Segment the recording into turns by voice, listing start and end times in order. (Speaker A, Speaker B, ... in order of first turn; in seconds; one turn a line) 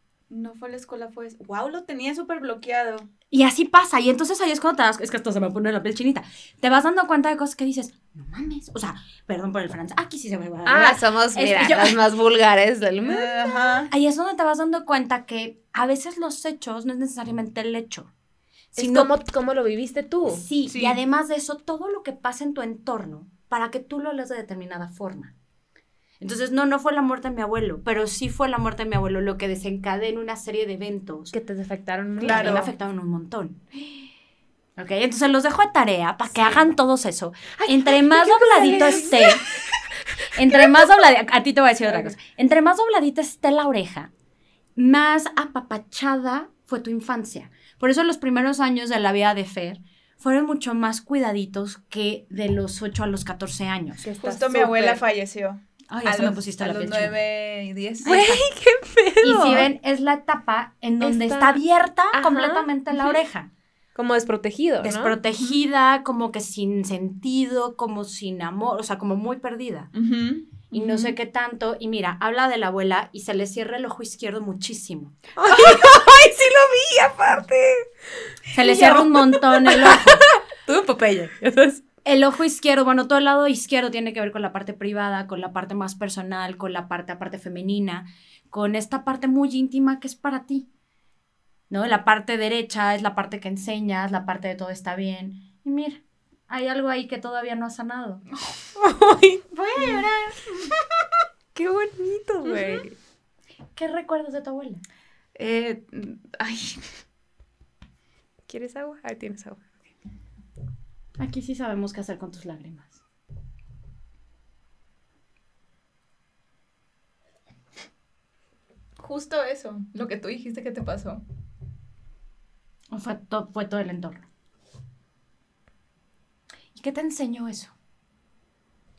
Speaker A: 0.3-3.1
Speaker B: 3.3-11.9
Speaker C: 10.7-13.9
Speaker A: 13.0-13.9
Speaker B: 13.9-18.1
Speaker B: 18.7-19.1
Speaker C: 18.8-20.4
Speaker B: 20.3-25.3
Speaker A: 20.6-21.0
Speaker B: 26.2-31.3
Speaker C: 31.3-32.7
Speaker B: 32.2-33.6
Speaker A: 32.2-32.7
Speaker B: 34.8-39.4
Speaker C: 37.6-39.5
Speaker C: 40.1-40.8
Speaker B: 40.3-44.1
Speaker B: 44.8-54.0
Speaker C: 54.0-55.0
Speaker A: 54.2-58.2
Speaker B: 55.9-57.2
Speaker B: 58.0-58.4
Speaker C: 58.0-59.7
Speaker B: 59.2-63.5
Speaker C: 61.0-61.6
Speaker C: 62.1-62.7
Speaker C: 63.9-65.2
Speaker B: 64.8-69.9
Speaker A: 69.9-71.1
Speaker B: 70.7-75.2
Speaker C: 75.4-77.9
Speaker B: 78.5-80.2
Speaker A: 78.6-79.1
Speaker C: 79.6-81.8
Speaker B: 82.0-90.7
Speaker B: 91.7-98.2
Speaker C: 98.8-99.4
Speaker B: 99.5-100.5
Speaker C: 101.5-103.0
Speaker B: 103.8-104.8
Speaker A: 105.4-106.8
Speaker C: 108.5-109.6
Speaker B: 111.2-113.0
Speaker A: 119.0-121.2
Speaker B: 122.9-124.2
Speaker B: 126.7-127.7